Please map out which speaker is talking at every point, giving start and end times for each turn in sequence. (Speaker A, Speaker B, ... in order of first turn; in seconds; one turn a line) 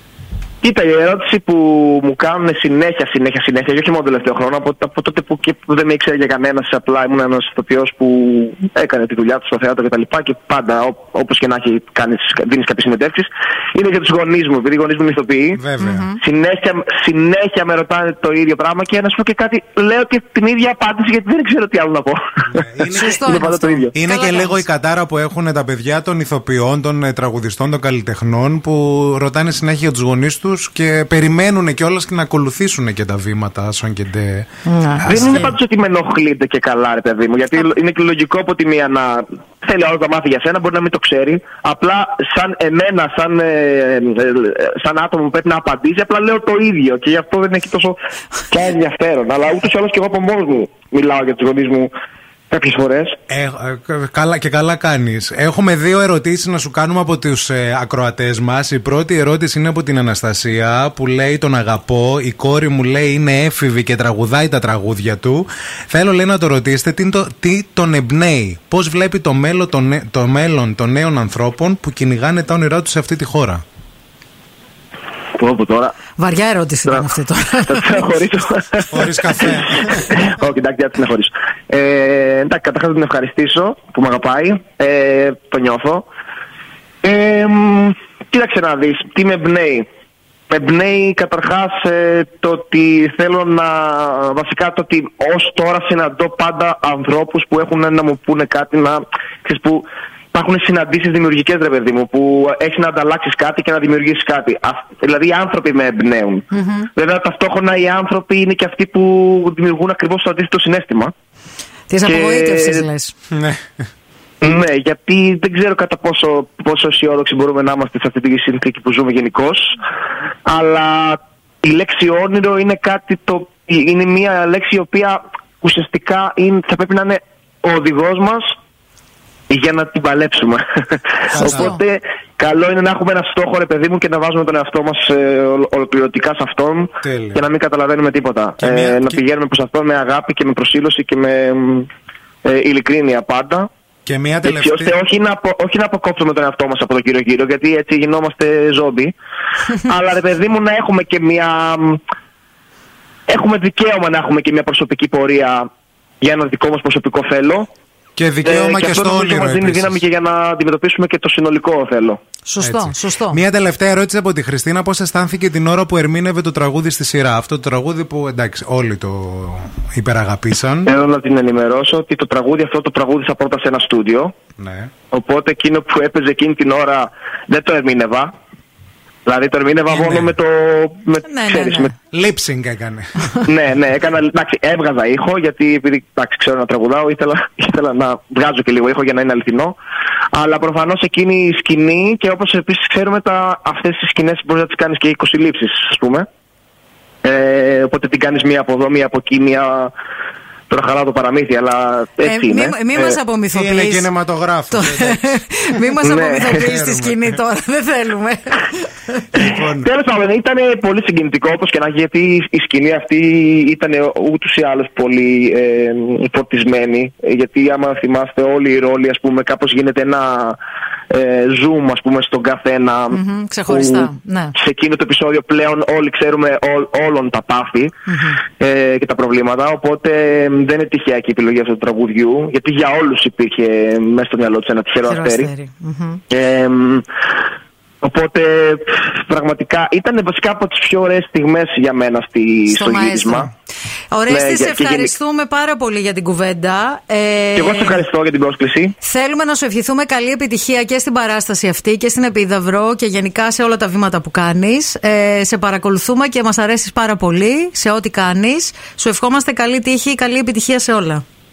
Speaker A: 0.6-15.6
Speaker B: 15.6-16.1
Speaker C: 15.8-16.2
Speaker A: 16.2-23.9
Speaker B: 22.5-23.4
Speaker C: 22.9-24.6
Speaker B: 23.9-34.5
Speaker C: 34.7-35.5
Speaker B: 35.0-35.5
Speaker A: 35.1-48.0
Speaker A: 48.5-51.9
Speaker A: 52.5-53.2
Speaker B: 53.3-73.6
Speaker A: 75.4-76.0
Speaker C: 76.2-78.1
Speaker A: 77.7-86.1
Speaker B: 78.9-80.2
Speaker A: 87.0-89.9
Speaker A: 90.5-111.1
Speaker C: 106.5-106.9
Speaker C: 111.9-113.1
Speaker A: 112.0-112.9
Speaker B: 113.3-113.6
Speaker A: 114.4-119.8
Speaker A: 120.5-128.5
Speaker A: 129.5-141.9
Speaker C: 131.3-131.8
Speaker B: 131.3-131.8
Speaker B: 137.0-137.4
Speaker B: 138.6-139.2
Speaker A: 142.4-143.7
Speaker B: 144.1-144.9
Speaker A: 144.4-149.1
Speaker A: 149.8-152.0
Speaker A: 153.3-155.7
Speaker A: 156.2-157.7
Speaker B: 158.2-160.0
Speaker A: 158.4-162.2
Speaker C: 162.5-163.4
Speaker B: 162.6-170.9
Speaker A: 170.9-174.4
Speaker B: 174.6-174.9
Speaker A: 175.1-178.3
Speaker A: 179.2-181.9
Speaker B: 179.9-180.3
Speaker C: 181.3-181.9
Speaker B: 182.1-183.1
Speaker A: 183.4-189.8
Speaker A: 190.3-196.3
Speaker A: 197.2-199.9
Speaker A: 200.7-203.2
Speaker C: 202.2-204.1
Speaker B: 203.5-205.4
Speaker C: 204.7-209.2
Speaker A: 206.0-206.6
Speaker B: 206.6-207.2
Speaker B: 209.3-209.9
Speaker A: 209.4-220.6
Speaker A: 221.1-227.9
Speaker C: 223.1-224.6
Speaker C: 228.1-228.4
Speaker A: 228.6-235.5
Speaker C: 235.0-236.2
Speaker A: 236.3-237.1
Speaker A: 238.0-243.5
Speaker C: 242.7-243.5
Speaker C: 244.1-248.1
Speaker A: 244.3-245.1
Speaker A: 247.6-249.0
Speaker C: 249.0-261.2